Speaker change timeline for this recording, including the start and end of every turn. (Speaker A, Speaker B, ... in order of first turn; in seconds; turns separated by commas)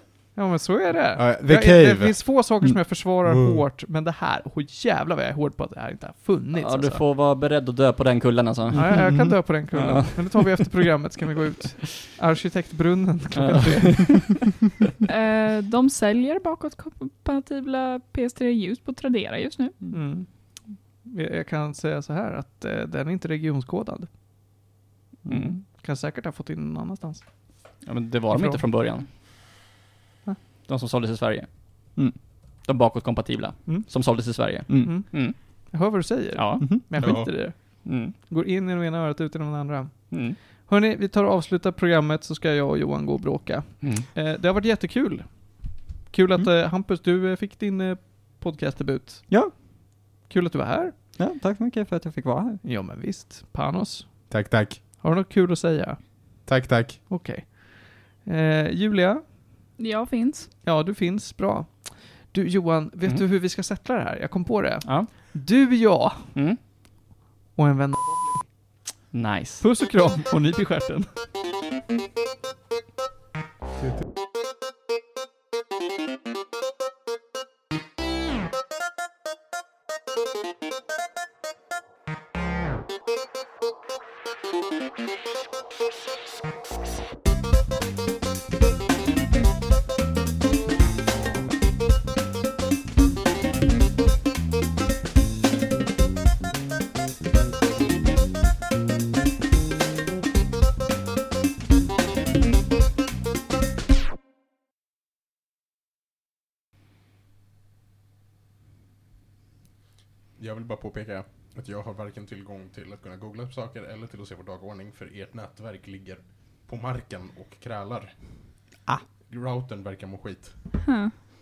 Speaker A: 0.3-7.0, Speaker B: 1.1-2.5, Speaker B: 3.0-3.6, Speaker C: 6.5-9.2, Speaker D: 8.7-10.7, Speaker A: 8.7-14.4, Speaker C: 13.3-14.3, Speaker E: 15.1-19.8, Speaker A: 19.9-24.1, Speaker D: 25.2-25.6, Speaker C: 25.3-25.6, Speaker A: 25.6-28.6, Speaker C: 27.8-29.1, Speaker C: 30.6-35.7, Speaker A: 34.7-49.6, Speaker C: 36.3-38.1, Speaker B: 37.0-37.3, Speaker C: 40.1-40.4, Speaker C: 43.8-44.1, Speaker D: 49.3-49.5, Speaker A: 50.2-50.9, Speaker D: 51.2-52.6, Speaker A: 52.6-56.5, Speaker B: 54.3-54.8, Speaker B: 56.5-57.0, Speaker A: 57.1-59.3, Speaker E: 59.8-60.5, Speaker A: 60.6-66.6, Speaker C: 64.8-65.1, Speaker C: 66.3-66.6, Speaker A: 67.5-68.5, Speaker C: 69.1-69.7, Speaker A: 69.6-71.1, Speaker B: 110.4-118.7, Speaker B: 119.2-121.0, Speaker E: 120.8-121.2